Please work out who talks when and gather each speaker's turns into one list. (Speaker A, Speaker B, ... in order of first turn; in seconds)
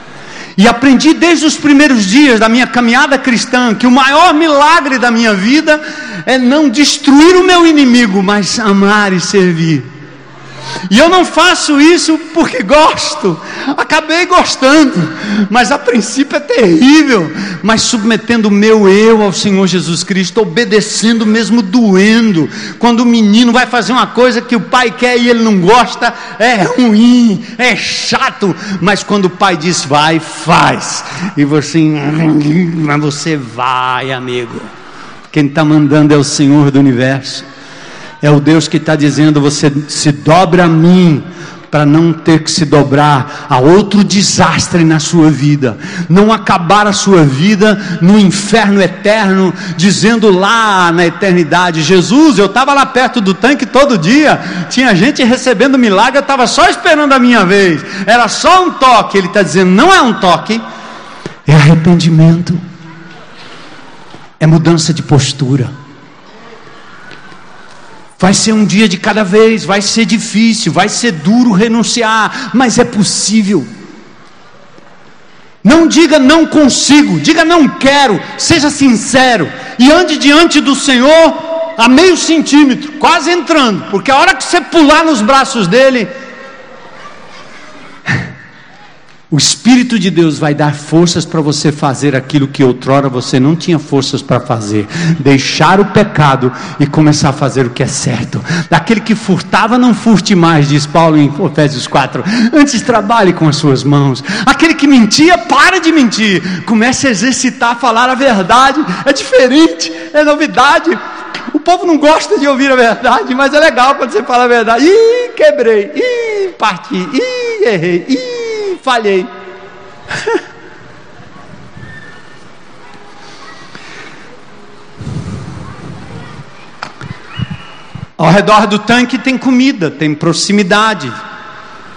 Speaker A: 0.6-9.8, 10.9-34.7, 35.3-37.4, 38.2-60.6, 61.5-62.6, 64.4-65.7, 68.2-73.7, 75.6-86.1, 89.3-111.0, 111.5-119.3, 128.2-131.2